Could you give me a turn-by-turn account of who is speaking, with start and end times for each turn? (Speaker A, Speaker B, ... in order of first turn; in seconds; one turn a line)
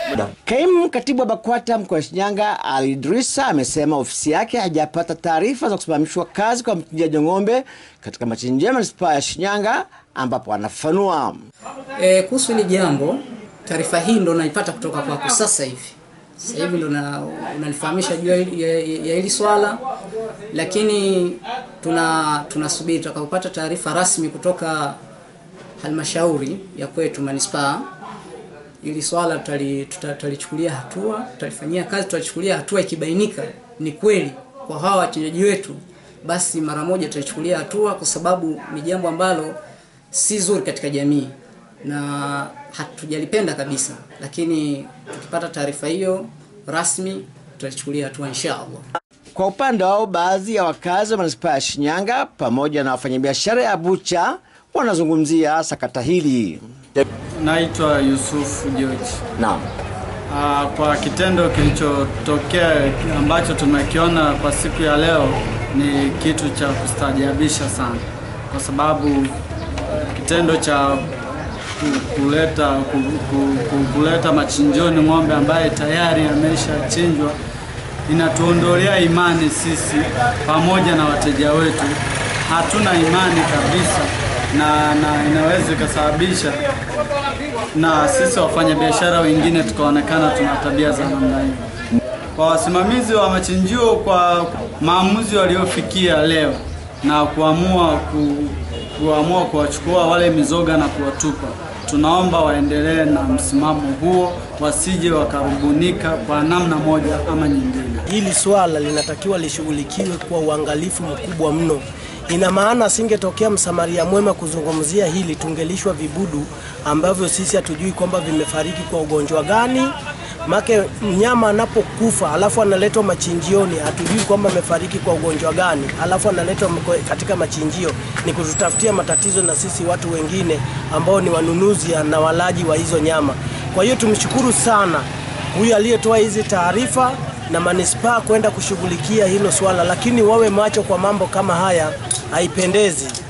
Speaker A: 0.3-11.4
Speaker B: 12.0-19.8
Speaker B: 20.5-25.0
Speaker B: 25.8-27.9
Speaker B: 28.8-39.6
Speaker B: 40.1-48.8
Speaker A: 49.4-57.1
Speaker C: 57.4-59.2
Speaker A: 59.4-59.7
Speaker C: 60.3-69.3
Speaker C: 70.1-71.1
Speaker C: 71.8-77.4
Speaker C: 78.1-86.6
Speaker C: 87.8-91.7
Speaker C: 92.4-108.1
Speaker D: 108.1-119.9
Speaker D: 120.5-143.2